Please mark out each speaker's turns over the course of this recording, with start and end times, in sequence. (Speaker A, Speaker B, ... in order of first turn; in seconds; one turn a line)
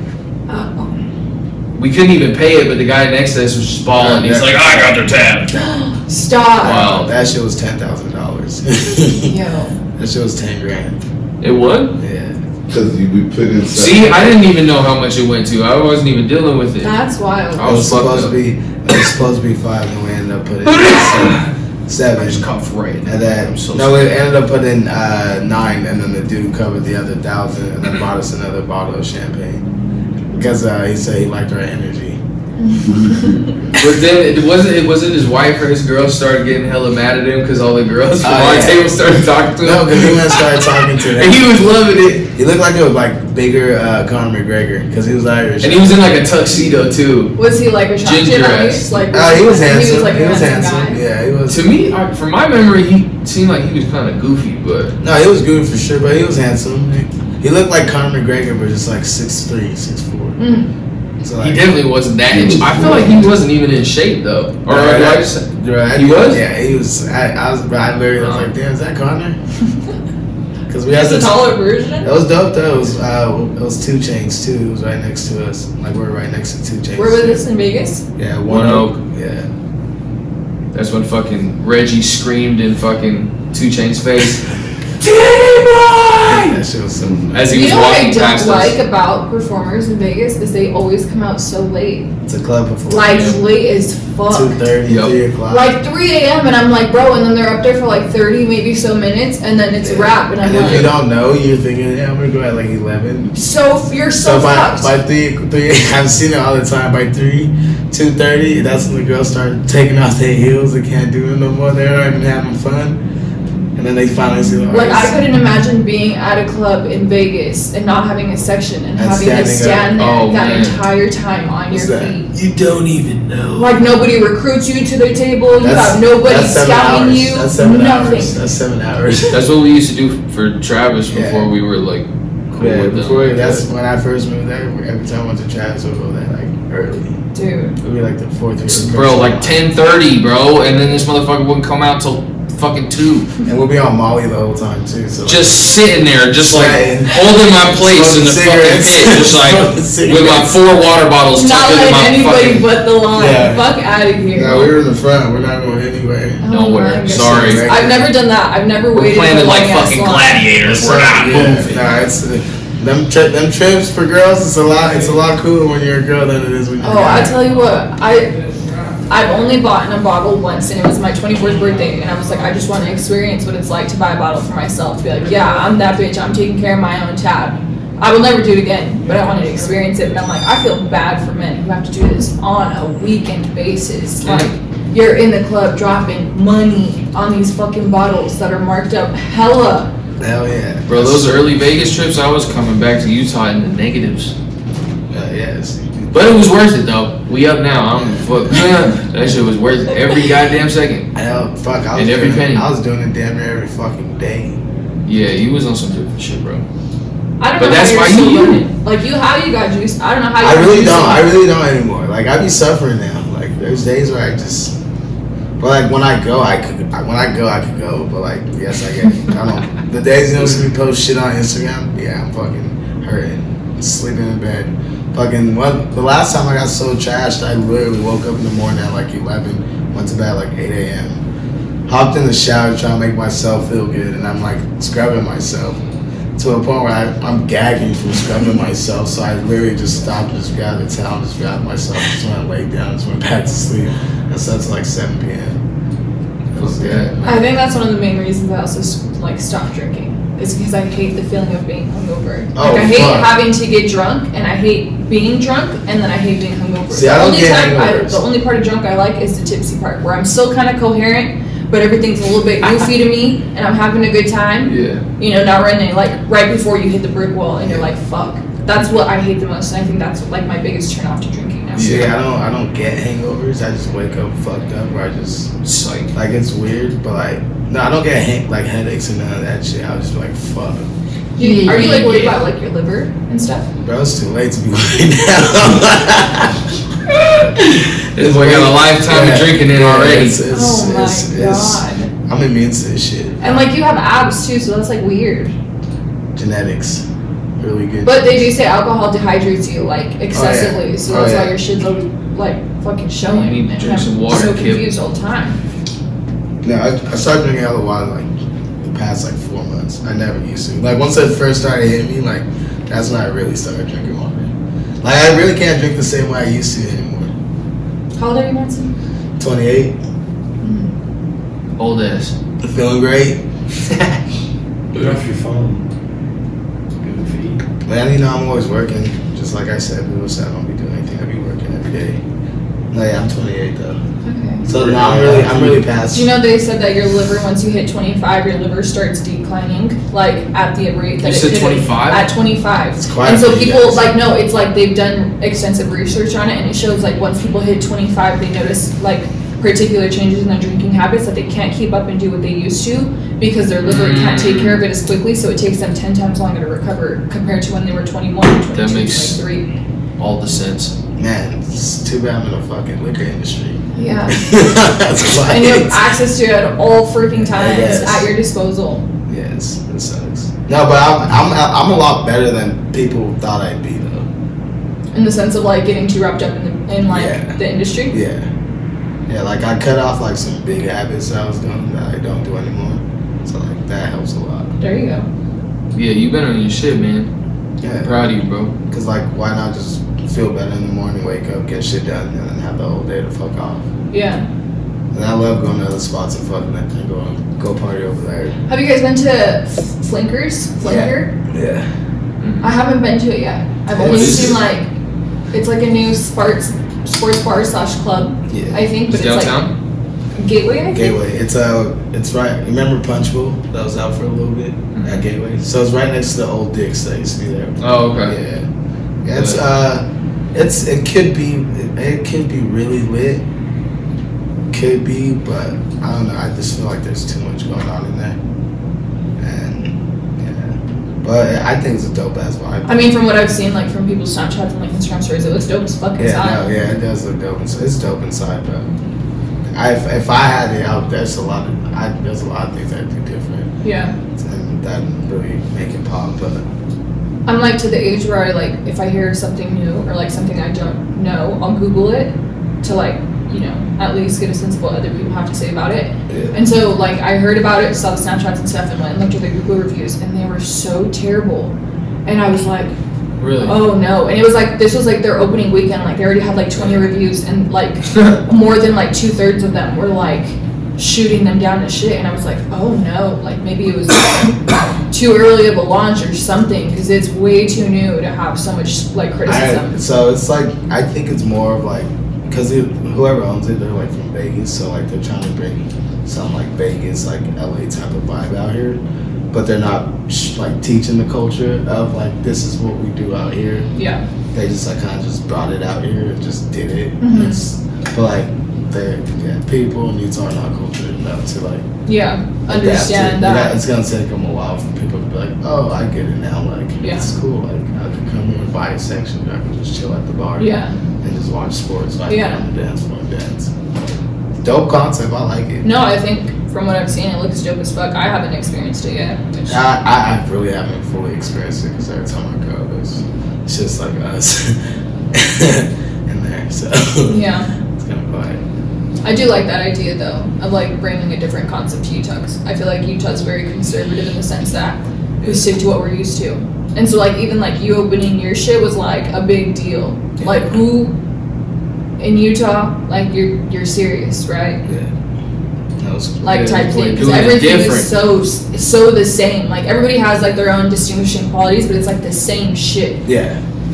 Speaker A: 0.5-1.1
Speaker B: 1.8-5.5
Speaker C: 4.0-4.9
Speaker C: 5.5-5.9
Speaker A: 6.0-7.0
Speaker B: 6.6-7.1
Speaker C: 6.6-9.3
Speaker A: 9.0-9.8
Speaker C: 9.9-11.0
Speaker B: 11.4-11.9
Speaker C: 12.0-12.4
Speaker D: 12.7-14.3
Speaker B: 13.7-16.9
Speaker A: 16.8-17.6
Speaker B: 17.5-18.3
Speaker C: 17.6-22.4
Speaker B: 20.6-21.5
Speaker B: 22.2-24.2
Speaker C: 23.0-29.6
Speaker C: 30.3-32.2
Speaker A: 32.6-33.7
Speaker D: 33.0-33.2
Speaker B: 33.7-42.3
Speaker C: 38.2-38.9
Speaker C: 39.6-41.4
Speaker C: 42.3-46.0
Speaker B: 45.6-47.4
Speaker A: 47.4-51.0
Speaker B: 48.0-48.9
Speaker C: 49.1-51.7
Speaker B: 51.5-54.9
Speaker C: 55.0-60.4
Speaker A: 60.4-60.7
Speaker C: 61.2-61.6
Speaker B: 61.4-66.4
Speaker D: 62.3-63.3
Speaker C: 64.7-69.4
Speaker B: 68.2-68.5
Speaker C: 70.7-71.4
Speaker A: 70.9-72.1
Speaker C: 72.0-77.4
Speaker A: 76.9-78.0
Speaker C: 78.2-79.5
Speaker B: 78.5-78.9
Speaker B: 80.7-84.5
Speaker B: 85.0-86.6
Speaker C: 86.2-87.8
Speaker B: 87.3-88.8
Speaker A: 87.5-92.1
Speaker C: 92.2-93.3
Speaker A: 92.9-94.6
Speaker B: 93.1-93.4
Speaker C: 94.3-95.7
Speaker B: 94.9-95.1
Speaker A: 95.5-100.9
Speaker C: 99.8-103.3
Speaker B: 100.5-100.9
Speaker A: 103.3-104.9
Speaker C: 104.1-113.0
Speaker C: 113.8-115.2
Speaker A: 114.7-122.3
Speaker C: 119.0-120.0
Speaker B: 120.0-120.8
Speaker C: 121.7-122.2
Speaker B: 122.3-123.6
Speaker A: 123.6-128.3
Speaker C: 125.6-129.4
Speaker B: 129.3-133.6
Speaker C: 131.1-131.5
Speaker C: 132.6-137.2
Speaker A: 137.3-137.8
Speaker C: 137.8-139.6
Speaker B: 138.6-143.3
Speaker C: 143.4-145.7
Speaker B: 145.2-152.7
Speaker C: 146.4-150.5
Speaker A: 151.3-154.7
Speaker C: 153.1-153.7
Speaker C: 154.3-156.4
Speaker A: 156.4-160.5
Speaker B: 156.5-157.7
Speaker C: 157.1-158.1
Speaker B: 158.9-161.8
Speaker C: 160.6-167.4
Speaker A: 166.8-168.3
Speaker A: 169.1-189.9
Speaker B: 184.2-184.5
Speaker C: 190.2-191.4
Speaker B: 190.9-194.3
Speaker C: 195.1-196.3
Speaker B: 196.1-201.1
Speaker C: 201.1-204.6
Speaker B: 201.9-202.7
Speaker B: 205.1-206.7
Speaker A: 207.4-211.3
Speaker B: 207.6-208.6
Speaker C: 210.4-214.8
Speaker C: 215.6-231.2
Speaker C: 231.9-235.8
Speaker C: 236.4-245.6
Speaker C: 246.5-247.2
Speaker B: 246.6-247.4
Speaker A: 247.2-272.1
Speaker C: 252.5-253.3
Speaker C: 256.9-258.2
Speaker B: 264.6-265.0
Speaker C: 267.6-267.9
Speaker B: 271.7-272.1
Speaker C: 271.8-275.5
Speaker B: 275.6-276.1
Speaker C: 276.1-280.9
Speaker A: 281.4-283.7
Speaker B: 281.4-282.4
Speaker C: 283.8-286.7
Speaker C: 287.4-293.6
Speaker B: 288.1-290.4
Speaker A: 290.5-292.1
Speaker A: 293.4-295.5
Speaker C: 296.3-297.0
Speaker C: 297.6-298.4
Speaker A: 298.0-305.6
Speaker C: 300.3-301.6
Speaker B: 303.3-304.9
Speaker C: 306.6-308.3
Speaker C: 308.8-317.3
Speaker A: 318.2-318.9
Speaker C: 319.4-320.0
Speaker A: 320.6-320.9
Speaker B: 321.8-322.3
Speaker C: 322.6-323.4
Speaker B: 323.8-324.2
Speaker E: 324.9-325.9
Speaker E: 327.0-327.6
Speaker C: 327.8-332.2
Speaker C: 332.9-334.0
Speaker A: 334.2-334.7
Speaker C: 334.6-336.3
Speaker D: 334.7-335.8
Speaker E: 335.0-335.4
Speaker A: 336.1-359.7
Speaker B: 341.2-342.3
Speaker C: 343.0-344.1
Speaker B: 353.8-354.8
Speaker B: 358.7-359.4
Speaker B: 360.2-360.9
Speaker C: 361.2-366.0
Speaker A: 363.9-364.6
Speaker A: 365.4-369.1
Speaker C: 367.5-368.3
Speaker C: 369.3-374.3
Speaker A: 375.1-378.1
Speaker C: 377.1-378.5
Speaker C: 379.3-384.7
Speaker A: 384.8-385.3
Speaker B: 385.9-387.3
Speaker C: 387.8-388.2
Speaker B: 388.0-388.7
Speaker C: 388.9-393.9
Speaker A: 394.1-394.4
Speaker C: 395.1-398.6
Speaker A: 398.7-401.3
Speaker C: 400.8-401.9
Speaker B: 402.4-402.7
Speaker A: 402.6-404.9
Speaker C: 403.9-404.6
Speaker B: 404.0-404.6
Speaker A: 405.5-409.7
Speaker C: 408.5-408.8
Speaker B: 409.1-409.7
Speaker A: 410.4-411.2
Speaker C: 410.9-418.7
Speaker B: 414.9-415.2
Speaker B: 417.8-418.4
Speaker C: 419.2-423.4
Speaker B: 419.3-419.6
Speaker C: 424.7-428.4
Speaker C: 429.4-433.1
Speaker A: 432.8-436.6
Speaker C: 436.2-438.9
Speaker C: 439.7-443.7
Speaker A: 443.8-444.2
Speaker C: 444.3-446.6
Speaker A: 447.4-461.7
Speaker C: 456.3-456.6
Speaker A: 462.2-462.9
Speaker B: 463.4-463.8
Speaker A: 463.6-474.6
Speaker A: 475.1-479.9
Speaker C: 479.4-489.0
Speaker C: 489.5-493.9
Speaker A: 493.9-494.2
Speaker C: 494.5-501.9
Speaker A: 497.2-497.6
Speaker A: 502.1-503.8
Speaker C: 502.7-513.7
Speaker A: 507.0-507.3
Speaker A: 510.6-510.9
Speaker A: 512.3-512.6
Speaker C: 514.6-515.9
Speaker A: 515.8-519.7
Speaker C: 519.7-524.8
Speaker C: 525.3-527.4
Speaker A: 527.3-527.7
Speaker C: 528.0-528.6
Speaker A: 529.2-541.1
Speaker C: 535.4-535.7
Speaker A: 542.2-544.8
Speaker C: 544.8-545.1
Speaker C: 546.0-547.2
Speaker A: 546.4-553.2
Speaker B: 546.5-548.1
Speaker C: 553.2-553.6